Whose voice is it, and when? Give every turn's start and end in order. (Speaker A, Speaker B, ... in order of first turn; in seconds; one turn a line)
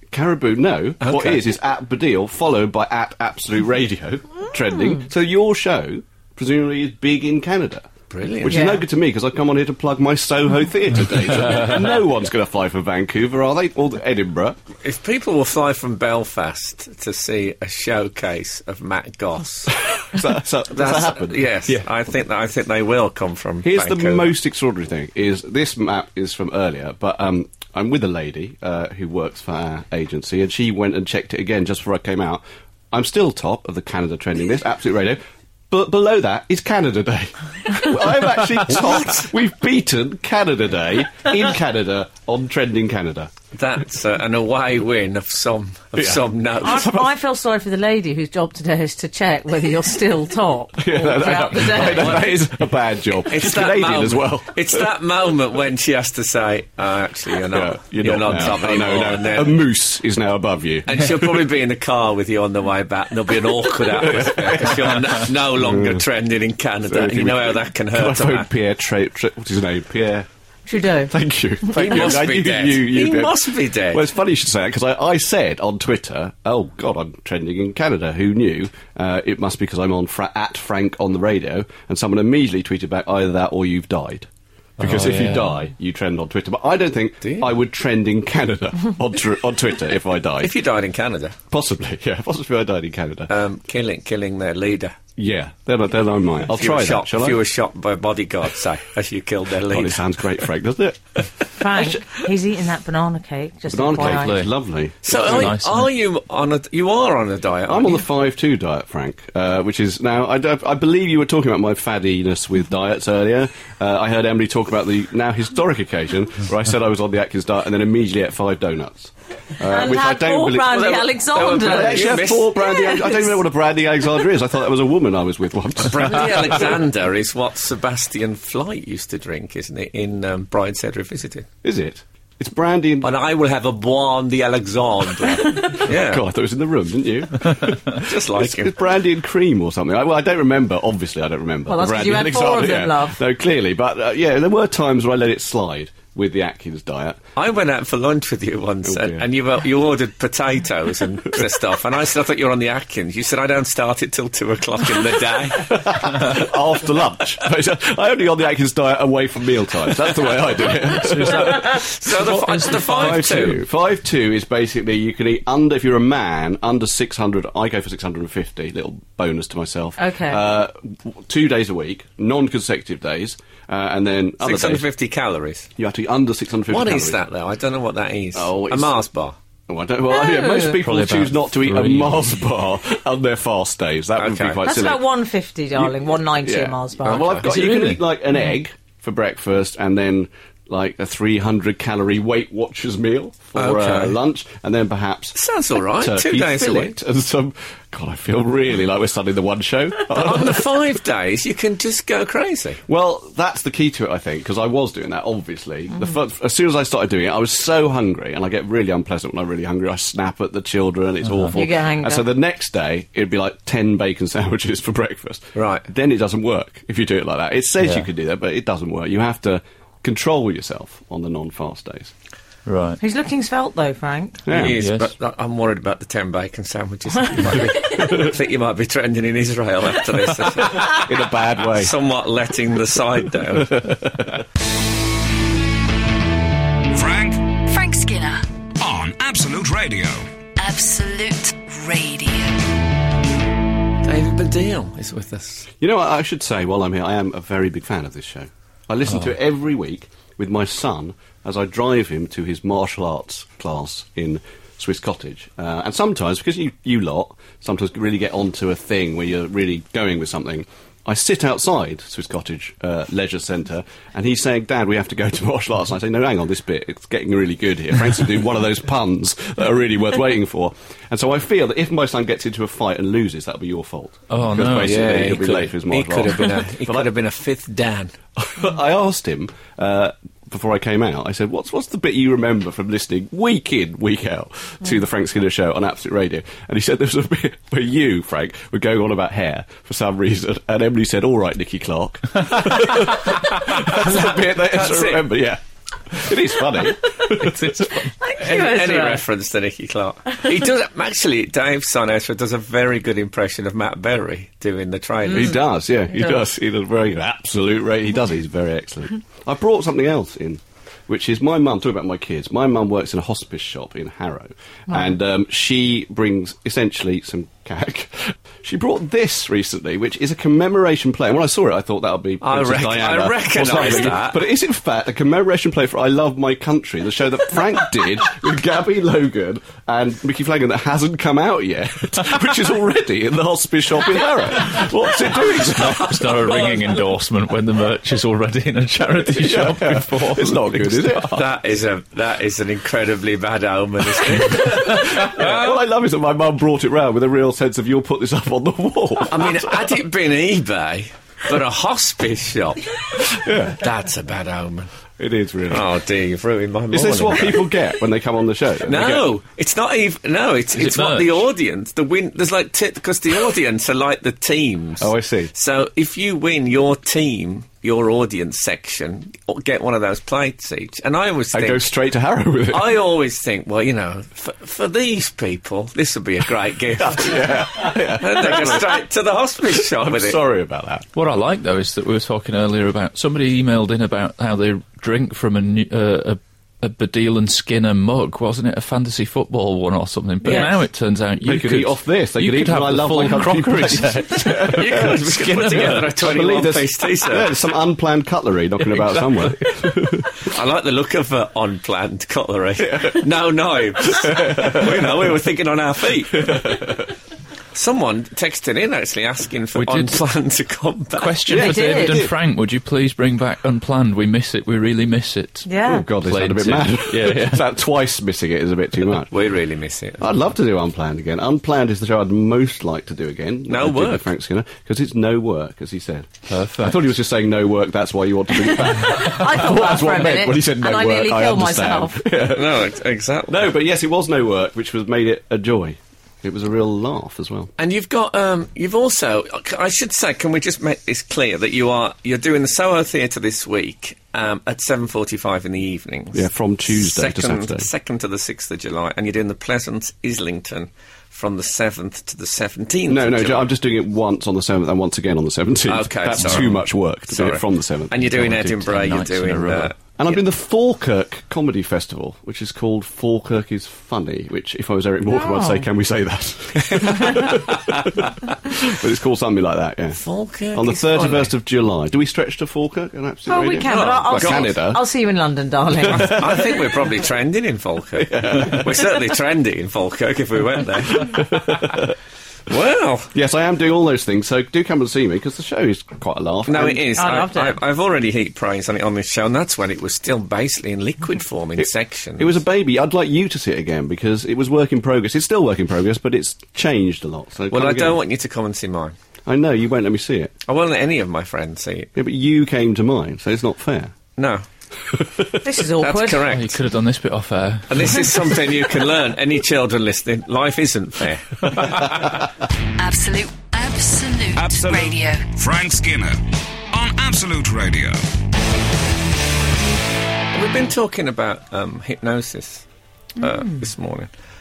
Speaker A: 0.1-7.9
Speaker B: 1.0-1.4
Speaker B: 8.1-8.7
Speaker A: 8.4-14.6
Speaker C: 8.5-8.8
Speaker B: 14.8-19.8
Speaker A: 19.7-21.5
Speaker B: 20.7-24.3
Speaker A: 23.6-43.3
Speaker B: 38.7-39.2
Speaker B: 43.5-46.9
Speaker A: 46.0-47.0
Speaker C: 46.6-52.3
Speaker A: 50.8-54.9
Speaker B: 51.9-52.2
Speaker B: 53.2-59.6
Speaker A: 57.5-61.4
Speaker B: 60.9-68.5
Speaker A: 63.9-66.0
Speaker A: 66.9-70.2
Speaker C: 70.7-71.1
Speaker A: 71.1-84.3
Speaker C: 71.6-72.0
Speaker B: 71.7-74.0
Speaker A: 84.8-90.5
Speaker D: 84.8-85.5
Speaker B: 87.2-87.5
Speaker B: 90.4-91.4
Speaker A: 91.5-93.3
Speaker B: 93.3-95.0
Speaker A: 95.2-97.4
Speaker B: 96.5-100.0
Speaker A: 99.6-102.0
Speaker C: 101.6-104.4
Speaker A: 103.7-105.5
Speaker D: 104.0-104.5
Speaker B: 105.0-108.0
Speaker D: 105.1-105.9
Speaker A: 107.7-126.8
Speaker C: 119.6-123.4
Speaker B: 120.7-122.7
Speaker B: 125.8-131.5
Speaker A: 131.6-133.1
Speaker B: 133.0-136.2
Speaker A: 135.4-147.2
Speaker B: 137.9-138.8
Speaker C: 141.7-143.2
Speaker B: 147.3-156.4
Speaker A: 148.8-149.2
Speaker A: 155.5-161.9
Speaker D: 160.9-163.5
Speaker B: 161.1-163.6
Speaker A: 162.6-174.8
Speaker C: 170.0-170.4
Speaker B: 174.4-175.7
Speaker A: 175.8-177.2
Speaker B: 176.7-179.4
Speaker A: 178.3-179.0
Speaker A: 179.7-185.0
Speaker C: 180.1-180.8
Speaker D: 180.8-182.4
Speaker B: 184.2-184.6
Speaker C: 184.6-187.2
Speaker A: 185.8-195.4
Speaker B: 187.0-187.5
Speaker D: 187.5-188.0
Speaker B: 193.5-194.2
Speaker B: 195.3-196.9
Speaker A: 196.0-200.7
Speaker B: 200.1-202.8
Speaker A: 202.9-222.1
Speaker D: 211.2-211.6
Speaker C: 211.5-212.3
Speaker B: 215.6-215.8
Speaker D: 217.8-218.1
Speaker D: 222.7-223.0
Speaker C: 223.0-224.4
Speaker A: 224.5-224.8
Speaker B: 224.5-233.9
Speaker D: 224.5-225.1
Speaker A: 227.8-228.3
Speaker A: 230.7-231.9
Speaker A: 233.6-234.4
Speaker E: 237.0-237.4
Speaker F: 237.4-238.4
Speaker E: 238.8-240.2
Speaker F: 240.6-242.6
Speaker B: 244.0-245.7
Speaker A: 245.8-277.1
Speaker D: 274.3-275.1
Speaker B: 274.8-278.1
Speaker A: 278.4-298.1
Speaker B: 293.7-295.2
Speaker C: 297.9-299.2
Speaker B: 298.4-305.6
Speaker A: 305.3-336.5
Speaker B: 322.4-324.4
Speaker D: 335.7-341.4
Speaker B: 336.3-337.0
Speaker A: 339.2-341.4
Speaker B: 341.3-345.8
Speaker A: 344.2-350.0
Speaker B: 349.3-354.9
Speaker A: 353.2-353.8
Speaker A: 355.2-355.9
Speaker B: 355.7-357.7
Speaker A: 356.9-359.3
Speaker B: 358.8-371.9
Speaker D: 360.7-361.4
Speaker A: 365.0-365.5
Speaker A: 371.5-373.0
Speaker B: 372.7-380.4
Speaker A: 377.0-379.0
Speaker A: 379.8-381.1
Speaker D: 381.1-396.1
Speaker A: 391.4-400.4
Speaker B: 394.7-397.5
Speaker D: 398.9-400.0
Speaker B: 400.4-406.9
Speaker A: 402.8-403.2
Speaker A: 404.0-405.2
Speaker A: 406.4-407.1
Speaker B: 407.7-411.4
Speaker D: 409.7-410.2
Speaker D: 411.2-417.6
Speaker A: 411.5-412.3
Speaker C: 411.5-412.2
Speaker C: 415.6-416.1
Speaker A: 415.8-419.3
Speaker B: 419.3-420.2
Speaker A: 420.2-432.9
Speaker B: 423.7-424.3
Speaker D: 426.5-427.0
Speaker C: 428.5-432.2
Speaker B: 432.4-433.6
Speaker A: 433.5-437.7
Speaker B: 437.8-453.7
Speaker A: 446.3-447.9
Speaker A: 453.1-458.3
Speaker B: 455.9-456.8
Speaker D: 456.4-456.8
Speaker B: 457.3-460.4
Speaker D: 458.2-459.9
Speaker A: 460.1-470.2
Speaker C: 465.3-465.9
Speaker B: 467.0-468.0
Speaker B: 470.1-471.5
Speaker A: 470.7-475.1
Speaker C: 473.5-476.7
Speaker B: 473.9-474.8
Speaker B: 476.1-481.8
Speaker A: 476.1-476.8
Speaker A: 478.2-479.2
Speaker A: 481.1-482.1
Speaker B: 482.7-483.3
Speaker A: 483.3-487.1
Speaker B: 486.6-492.6
Speaker C: 487.1-487.8
Speaker A: 491.8-498.2
Speaker B: 497.7-499.1
Speaker A: 499.5-500.5
Speaker B: 500.6-502.1
Speaker A: 502.1-504.1
Speaker B: 504.4-504.6
Speaker A: 505.0-505.6
Speaker C: 505.6-506.5
Speaker B: 506.0-506.8
Speaker D: 506.5-508.6
Speaker B: 507.9-512.4
Speaker F: 513.0-515.6
Speaker E: 514.5-516.3
Speaker E: 516.9-518.1
Speaker B: 520.5-522.9
Speaker B: 523.4-524.3